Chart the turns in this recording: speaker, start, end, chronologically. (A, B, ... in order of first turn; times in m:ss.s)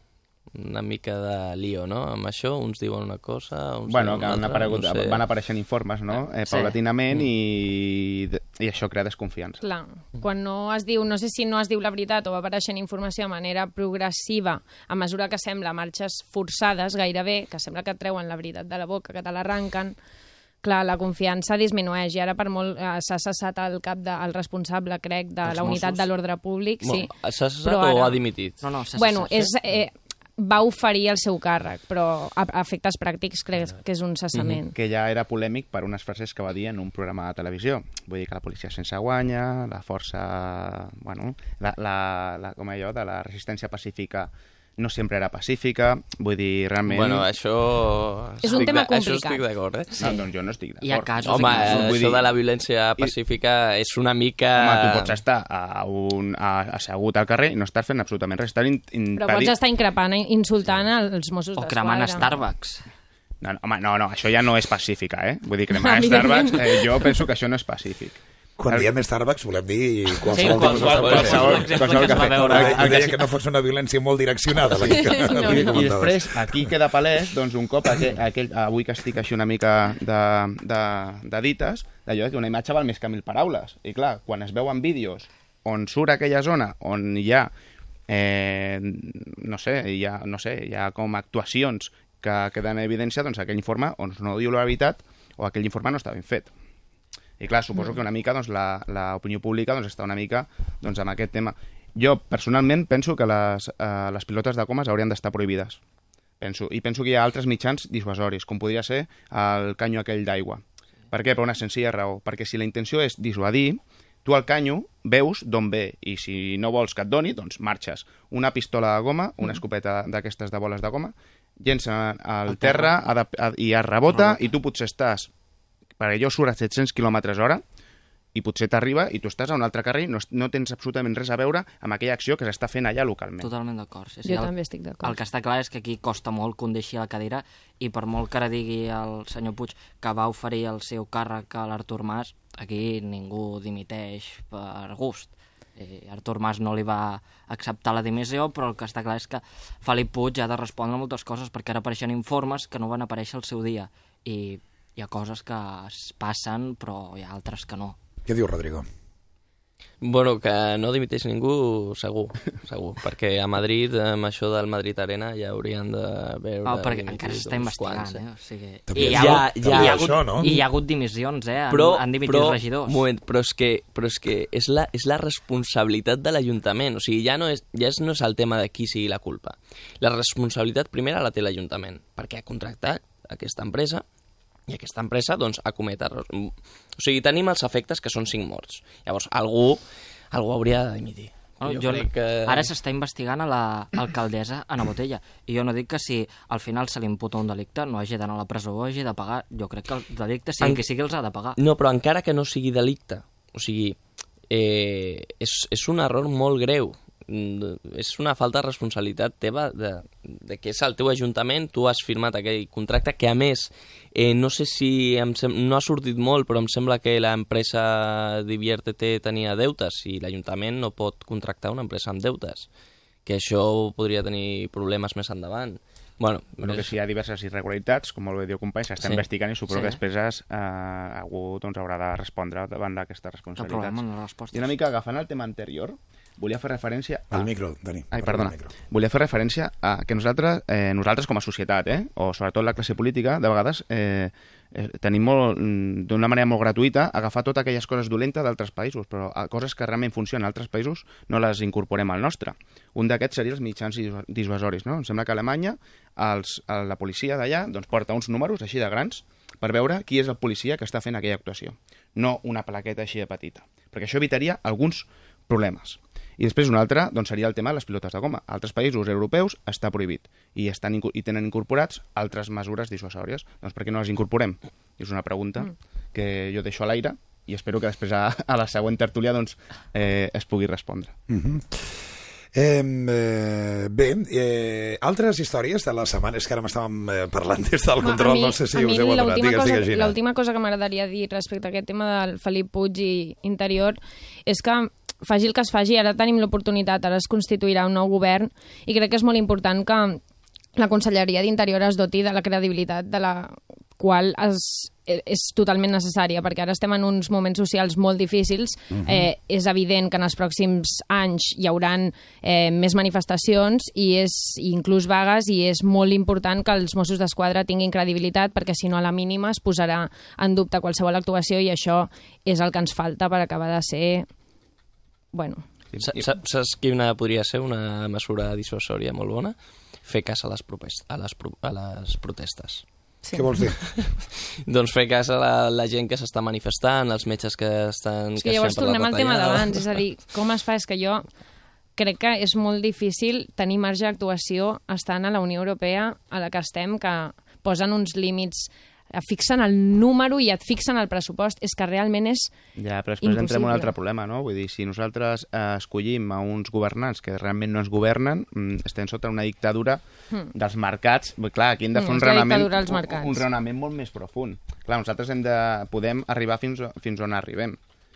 0:00.5-0:05.2 A
0:03.9-0:09.6 B
0:06.5-0:06.7 C
0:09.6-0:20.0 D
0:20.6-0:27.1 D
0:25.6-0:26.0 A
0:26.8-0:28.6 A
0:27.6-0:28.2 D
0:28.6-0:29.5 C
0:29.0-0:34.7 D
0:34.7-0:47.3 B
0:46.8-0:50.0 A
0:48.4-0:49.4 D
0:50.0-0:52.3 B
0:50.0-0:50.2 C
0:50.8-0:52.0 C
0:51.2-0:55.2 A
0:54.5-0:59.5 B
0:59.2-1:02.4 D
1:01.6-1:02.8 C
1:03.4-1:08.9 B
1:05.7-1:07.1 D
1:08.6-1:16.7 E
1:10.3-1:13.1 C
1:10.3-1:13.3 B
1:14.8-1:27.5 B
1:14.8-1:15.8 D
1:28.1-1:36.5 B
1:37.4-1:45.8 B
1:46.4-2:05.3 B
2:02.5-2:02.9 C
2:04.1-2:04.5 C
2:06.0-2:07.6 B
2:08.3-2:13.5 B
2:13.4-2:14.5 C
2:14.2-2:15.1 D
2:15.0-2:38.0 C
2:38.2-2:38.8 E
2:40.0-2:48.2 A
2:46.6-2:53.0 C
2:48.9-2:50.5 E
2:49.0-2:50.6 A
2:51.7-3:04.0 A
3:04.7-3:12.7 A
3:11.6-3:21.6 C
3:21.6-3:24.0 A
3:24.5-3:42.7 A
3:43.2-3:46.9 A
3:46.6-3:57.5 B
3:49.7-3:50.0 C
3:53.6-3:54.7 C
3:57.3-3:58.7 E
3:58.1-4:41.1 B
4:41.3-4:50.2 E
4:48.0-5:00.2 D
5:00.8-5:24.3 D
5:08.9-5:09.3 E
5:25.3-5:25.6 D
5:25.9-5:26.3 B
5:26.0-5:32.8 A
5:33.3-5:33.8 E
5:33.8-5:39.9 A
5:38.4-5:41.3 D
5:42.0-5:52.5 D
5:52.8-6:00.0 B
5:53.2-5:53.9 D
6:00.5-6:07.8 B
6:01.9-6:03.4 D